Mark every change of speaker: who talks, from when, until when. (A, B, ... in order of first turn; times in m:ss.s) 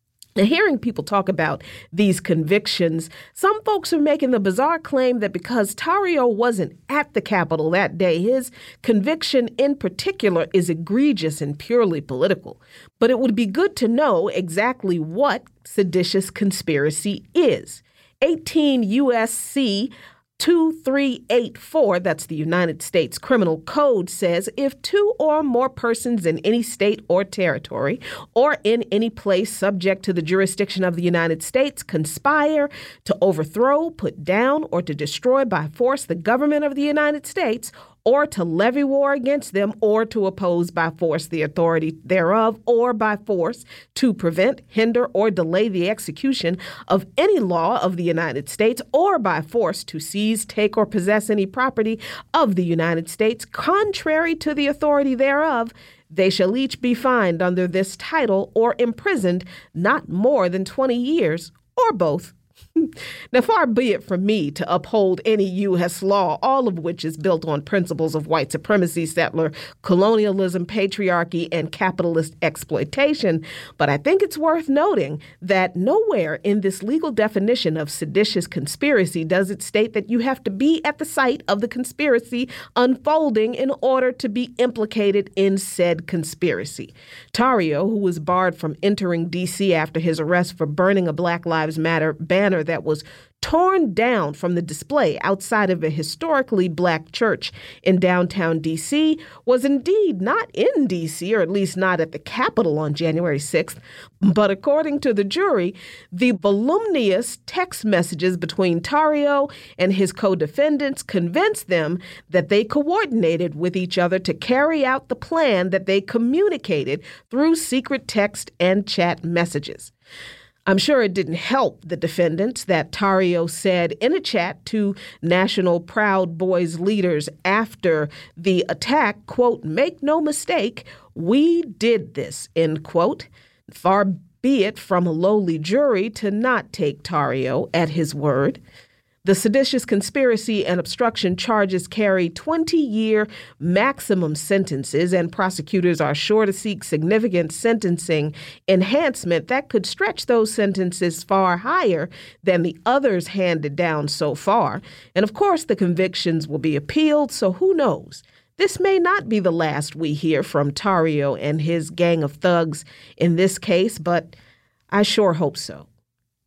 0:00.4-1:59.9 A
2:00.7-2:18.6 A
2:19.2-2:44.4 A
2:44.9-2:45.9 A